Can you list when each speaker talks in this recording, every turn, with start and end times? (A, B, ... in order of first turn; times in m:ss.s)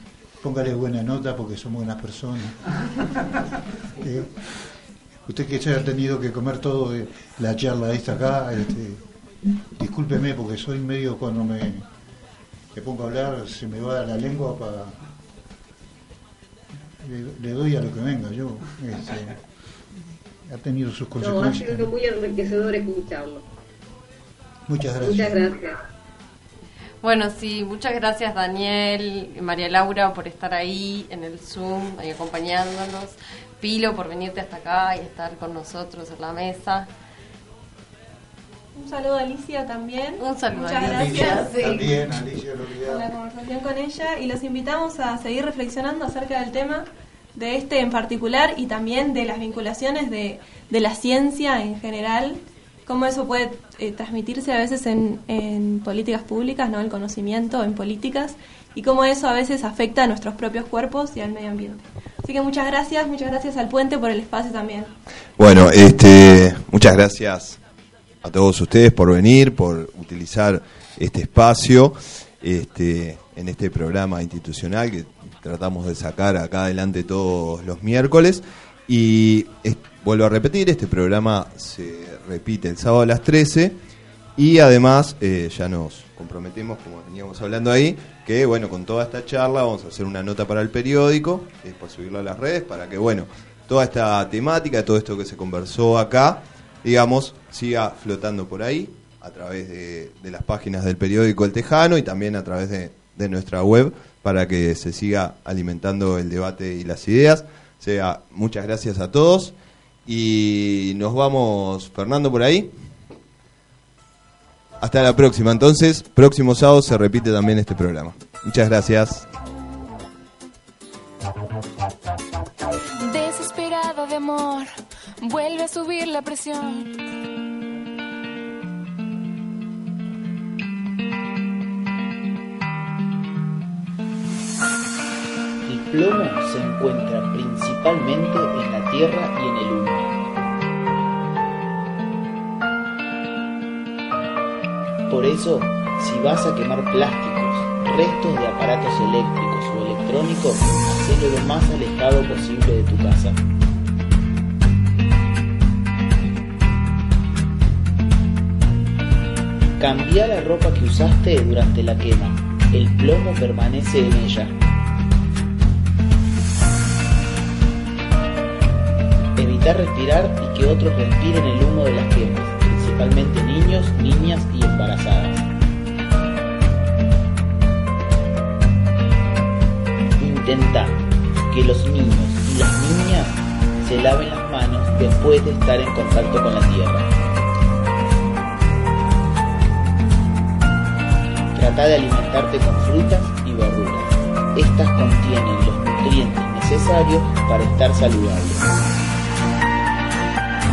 0:00.4-0:02.8 A
0:04.0-0:04.4 A
0:05.3-0:09.0 A
0:09.7-0:11.8 A
0:12.7-0:15.1 A
0:17.0-0:19.4 A
0:20.4-0:21.9 A
0:21.2-0:23.4 B
0:24.7-0:25.4 A
0:25.0-0:25.7 B
0:27.0-0:36.9 C
0:38.7-0:41.6 D
0:40.2-0:42.0 C
0:40.8-0:43.1 A
0:42.8-1:04.9 D
1:05.4-1:07.6 E
1:08.2-1:23.7 E
1:24.4-1:49.5 E
1:50.0-1:52.7 E
1:54.8-1:59.2 E
2:03.0-2:04.7 F
2:05.2-2:06.9 F
2:15.6-2:20.1 G
2:25.1-2:33.4 G
2:39.8-2:44.5 G
2:49.4-2:55.4 G
3:00.2-3:07.1 G
3:11.5-3:18.7 G